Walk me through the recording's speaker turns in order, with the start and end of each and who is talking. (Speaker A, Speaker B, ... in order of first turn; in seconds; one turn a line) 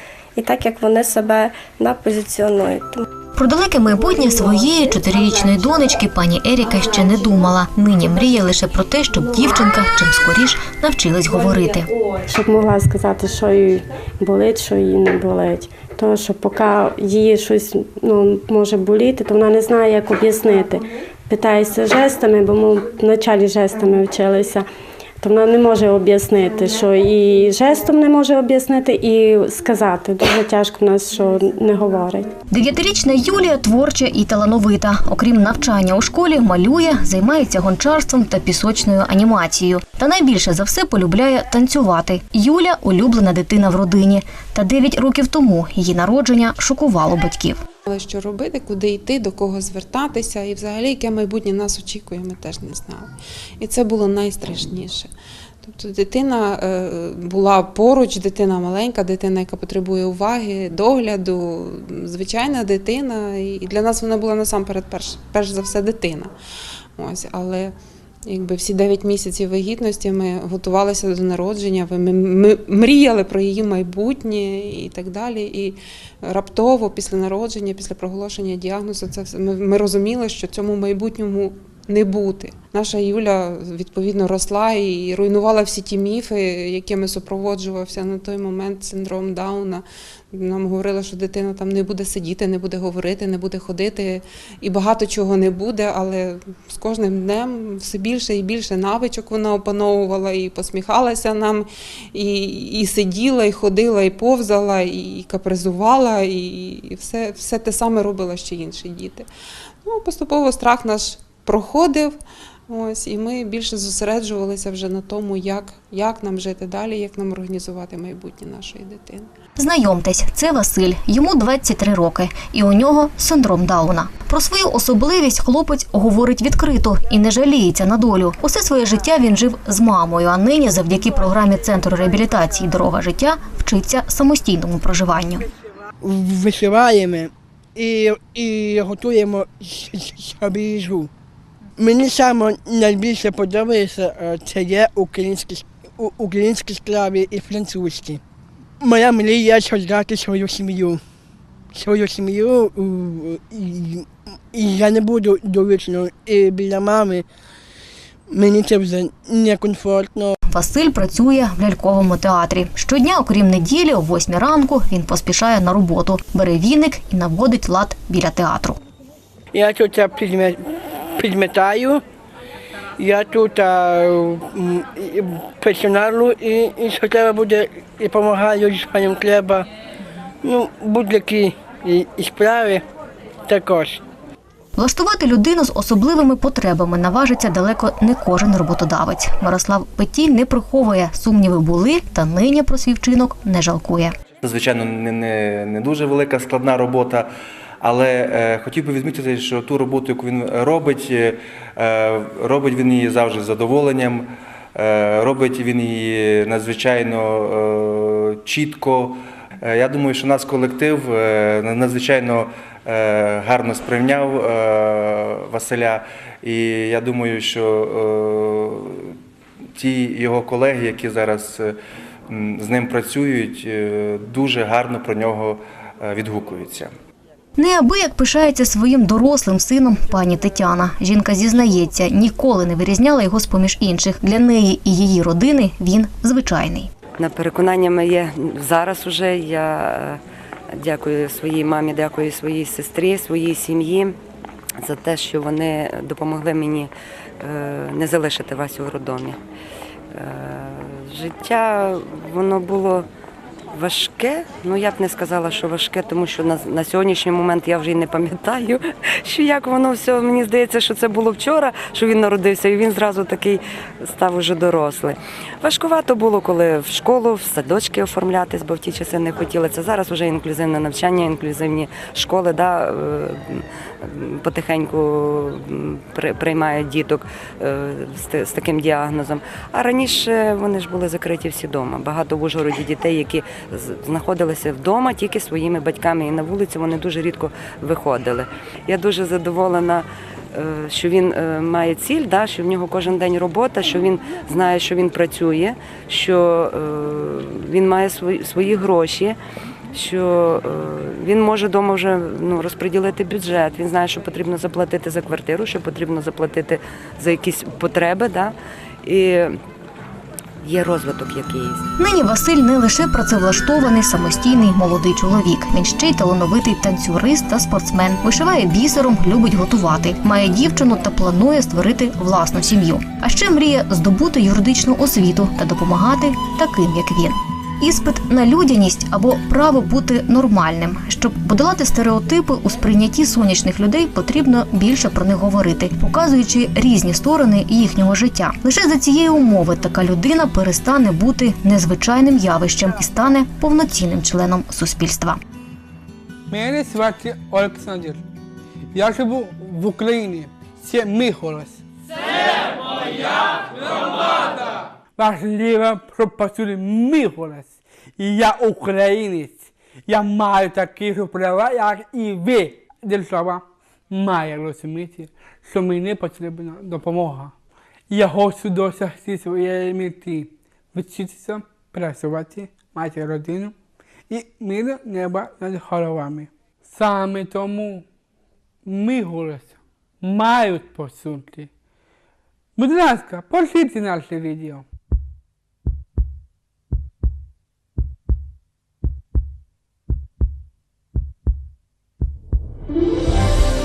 Speaker A: 0.4-3.1
Speaker B: 3.4-11.9
Speaker C: 12.2-24.6
Speaker C: 25.2-32.3
Speaker B: 32.5-47.6
Speaker D: 47.9-55.1
Speaker D: 55.6-66.3
Speaker D: 67.0-67.8
Speaker D: 68.3-109.3
Speaker D: 109.8-112.2
Speaker D: 112.7-119.3
Speaker B: 119.6-135.5
Speaker E: 136.0-141.1
Speaker E: 141.8-148.2
Speaker E: 148.8-151.0
Speaker E: 151.7-157.2
Speaker E: 158.3-160.4
Speaker B: 160.5-168.8
Speaker E: 169.5-170.6
Speaker E: 171.2-172.0
Speaker E: 173.0-179.7
Speaker E: 180.4-182.8
Speaker E: 183.5-184.0
Speaker B: 184.8-194.2
Speaker F: 194.4-197.3
Speaker F: 197.8-219.2
Speaker F: 219.8-221.8
Speaker F: 222.3-226.9
Speaker B: 227.6-236.9
Speaker G: 237.2-240.2
Speaker G: 240.7-244.2
Speaker G: 244.8-249.4
Speaker G: 250.1-253.1
Speaker G: 253.7-299.4
Speaker G: 299.9-309.6
Speaker G: 310.6-311.9
Speaker B: 312.0-345.4
Speaker H: 346.5-348.2
Speaker H: 348.9-351.8
Speaker H: 355.2-367.5
Speaker H: 368.1-373.7
Speaker H: 374.3-378.1
Speaker H: 378.9-381.7
Speaker H: 382.8-384.9